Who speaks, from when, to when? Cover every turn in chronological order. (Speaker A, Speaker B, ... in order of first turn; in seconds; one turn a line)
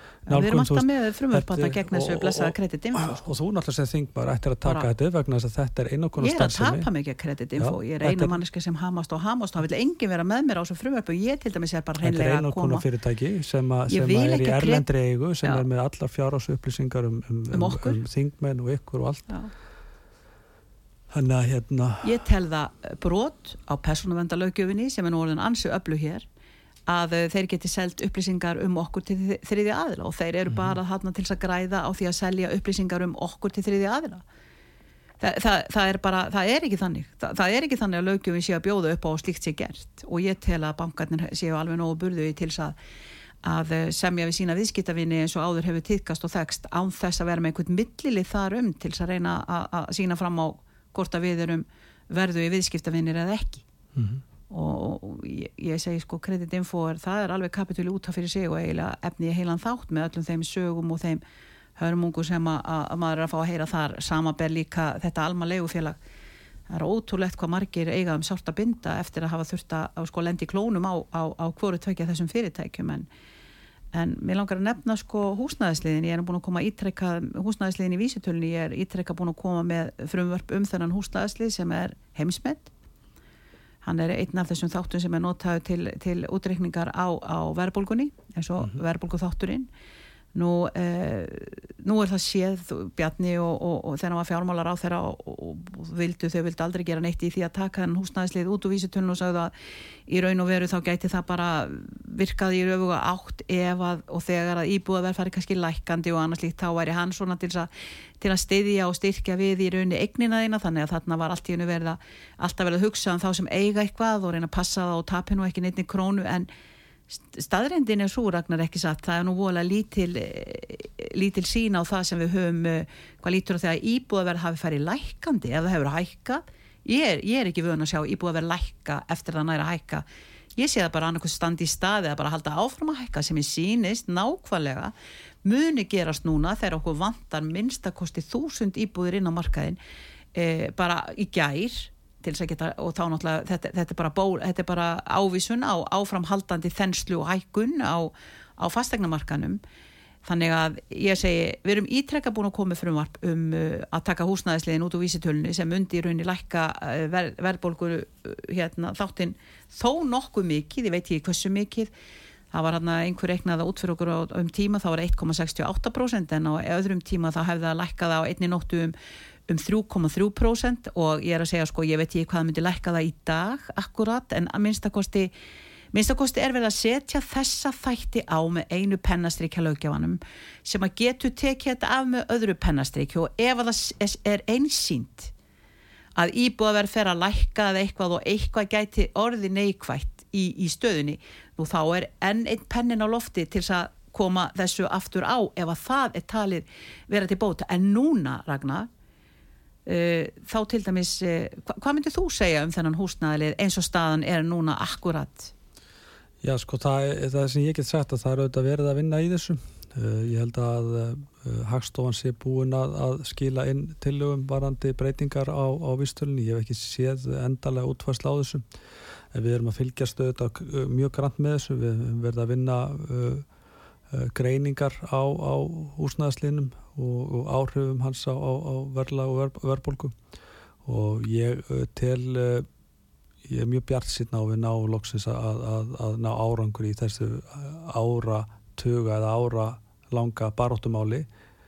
Speaker A: 0.3-3.3
Speaker B: 0.3-6.9
Speaker A: 6.2-12.8
Speaker B: 7.6-8.4
Speaker B: 12.0-19.4
Speaker A: 13.9-14.8
Speaker A: 17.5-18.0
Speaker B: 21.1-22.2
Speaker A: 22.0-26.3
Speaker A: 26.9-34.2
Speaker B: 30.5-30.8
Speaker A: 35.2-42.8
Speaker A: 43.4-53.6
Speaker B: 53.9-54.2
Speaker A: 54.5-61.2
Speaker A: 61.8-66.0
Speaker A: 66.7-73.1
Speaker A: 73.9-82.7
Speaker A: 83.8-89.7
Speaker A: 90.3-99.5
Speaker A: 100.1-107.7
Speaker A: 108.2-116.5
Speaker A: 117.1-130.0
Speaker A: 130.6-134.9
Speaker A: 135.4-139.8
Speaker A: 140.3-149.6
Speaker A: 150.2-161.9
Speaker A: 162.5-168.9
Speaker A: 169.5-175.3
Speaker A: 175.9-185.3
Speaker A: 186.2-198.9
Speaker A: 199.8-205.5
Speaker B: 206.4-218.6
Speaker B: 219.3-223.4
Speaker B: 224.1-230.1
Speaker B: 230.8-232.7
Speaker B: 233.4-241.3